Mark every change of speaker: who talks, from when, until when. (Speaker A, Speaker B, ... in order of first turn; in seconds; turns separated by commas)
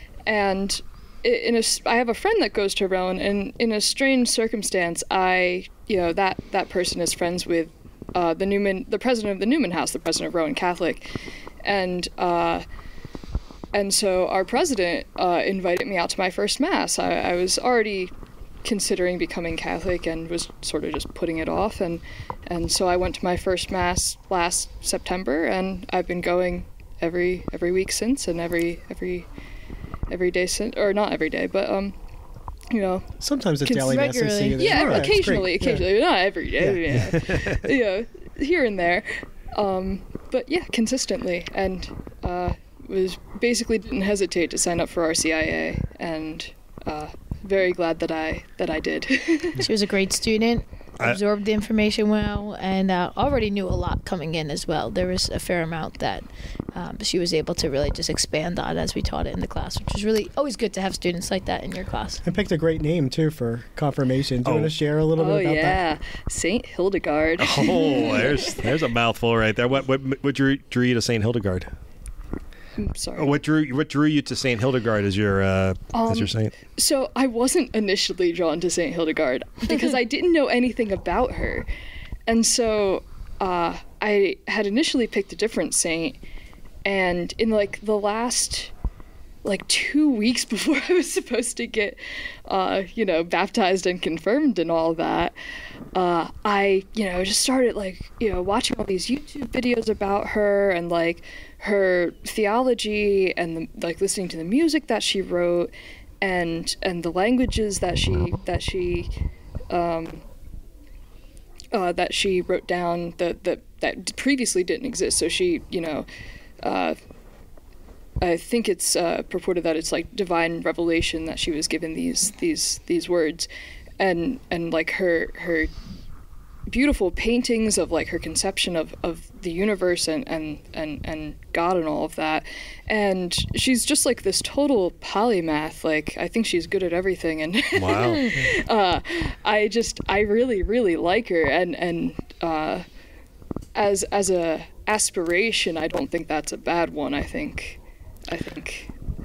Speaker A: 0.2-11.1, Speaker A: 11.6-12.6, Speaker A: 13.7-18.1, Speaker A: 18.6-29.3, Speaker A: 30.1-31.9, Speaker A: 32.7-33.0, Speaker B: 33.2-35.8, Speaker C: 33.6-34.6, Speaker A: 34.6-49.6, Speaker D: 34.7-35.1, Speaker B: 36.6-37.0, Speaker D: 36.9-37.6, Speaker C: 49.6-62.2, Speaker B: 62.2-65.8, Speaker D: 64.4-64.7, Speaker A: 65.2-68.7, Speaker D: 67.4-71.7, Speaker A: 72.8-73.4, Speaker D: 73.2-76.5, Speaker A: 75.9-81.7, Speaker A: 82.3-86.2, Speaker A: 86.8-88.7, Speaker A: 89.4-95.3, Speaker A: 95.9-109.1, Speaker A: 109.7-110.2, Speaker A: 111.7-116.1, Speaker A: 116.6-117.0, Speaker A: 118.2-123.5, Speaker A: 124.0-125.7, Speaker A: 126.7-142.8, Speaker D: 137.7-138.5, Speaker A: 143.7-148.9